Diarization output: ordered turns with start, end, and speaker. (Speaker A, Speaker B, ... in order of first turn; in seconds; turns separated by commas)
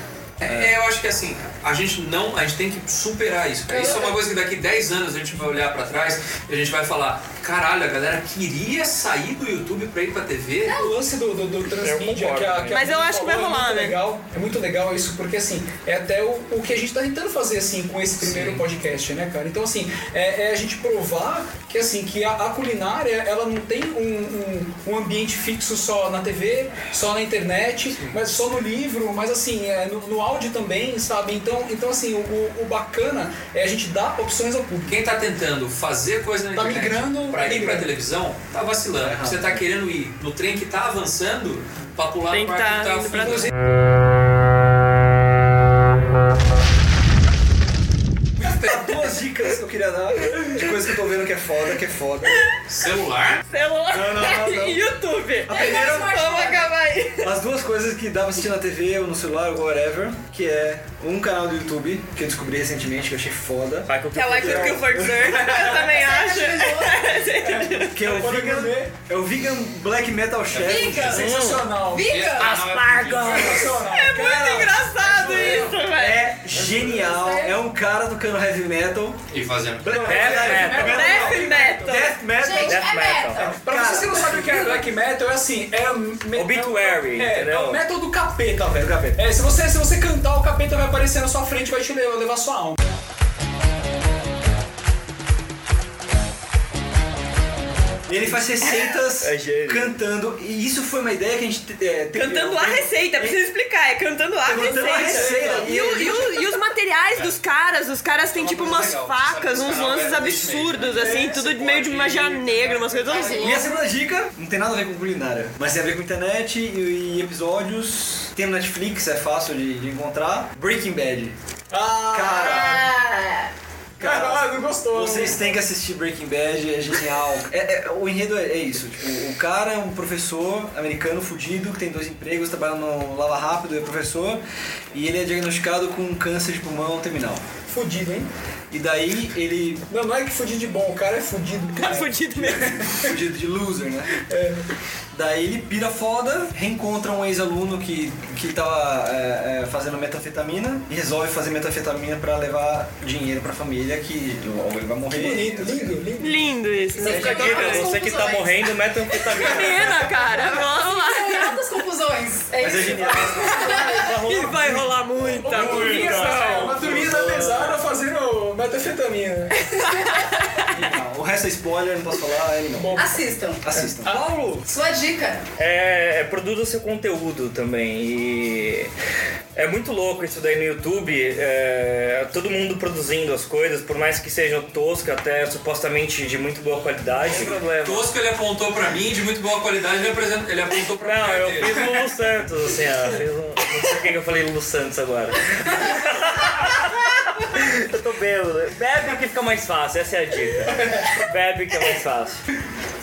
Speaker A: 0.4-10.8, Speaker B: 0.5-0.7, Speaker C: 3.7-4.1, Speaker C: 10.7-10.9, Speaker D: 10.7-35.0, Speaker E: 11.7-12.8, Speaker F: 12.7-14.0, Speaker A: 18.2-18.7, Speaker A: 27.9-28.2, Speaker A: 34.9-43.5, Speaker D: 36.5-37.9, Speaker B: 39.0-39.6, Speaker F: 42.3-43.5, Speaker B: 48.4-52.5, Speaker A: 52.7-53.4, Speaker F: 53.5-57.3, Speaker B: 53.9-54.9, Speaker B: 55.4-56.3, Speaker C: 55.5-56.7, Speaker B: 57.2-65.5, Speaker E: 63.9-65.1, Speaker F: 64.1-67.9, Speaker D: 65.2-65.8, Speaker C: 65.5-67.3, Speaker D: 67.4-68.9, Speaker B: 67.8-71.2, Speaker A: 70.5-71.5, Speaker C: 70.6-72.5, Speaker D: 71.0-72.5, Speaker E: 71.3-71.6, Speaker A: 72.0-73.9, Speaker E: 72.6-73.3, Speaker D: 73.1-75.8, Speaker F: 73.1-76.3, Speaker B: 75.9-79.2, Speaker C: 77.0-77.4, Speaker A: 79.3-80.6, Speaker B: 79.8-82.8, Speaker D: 79.9-82.0, Speaker E: 80.0-81.3, Speaker F: 80.8-82.2, Speaker C: 82.4-84.7, Speaker E: 82.6-83.5, Speaker B: 83.3-84.7, Speaker D: 83.6-92.8, Speaker E: 86.3-87.8, Speaker B: 88.7-89.2, Speaker B: 98.1-103.4, Speaker E: 99.2-99.9, Speaker F: 102.1-113.6, Speaker B: 104.5-106.5, Speaker D: 104.5-106.0, Speaker A: 108.3-111.8, Speaker D: 111.0-113.6, Speaker C: 113.1-113.5, Speaker B: 113.4-121.3, Speaker D: 121.7-122.9, Speaker B: 122.1-122.9, Speaker C: 122.3-123.5, Speaker D: 124.0-125.4, Speaker B: 124.0-134.4, Speaker B: 134.9-137.4, Speaker D: 137.7-138.3, Speaker B: 138.7-139.8, Speaker D: 139.9-143.1, Speaker F: 141.8-142.7, Speaker B: 143.0-144.2, Speaker D: 144.2-144.6, Speaker B: 145.1-156.0, Speaker D: 155.1-156.5, Speaker F: 156.2-157.9, Speaker C: 157.0-158.7, Speaker D: 157.0-157.7, Speaker E: 157.0-160.0, Speaker F: 159.1-161.6, Speaker D: 159.4-160.3, Speaker C: 160.5-164.4, Speaker B: 162.6-163.7, Speaker D: 162.7-163.9, Speaker F: 163.6-166.8, Speaker E: 163.9-167.8, Speaker D: 164.5-164.8, Speaker D: 165.3-170.3, Speaker B: 166.8-167.3, Speaker B: 170.7-173.0, Speaker D: 172.7-173.2, Speaker C: 172.9-173.6, Speaker B: 173.6-174.2, Speaker D: 173.7-174.3, Speaker E: 174.0-174.7, Speaker C: 174.6-175.4, Speaker E: 175.6-178.9, Speaker E: 179.5-188.1, Speaker A: 187.2-191.9, Speaker E: 191.0-202.4, Speaker D: 200.7-201.2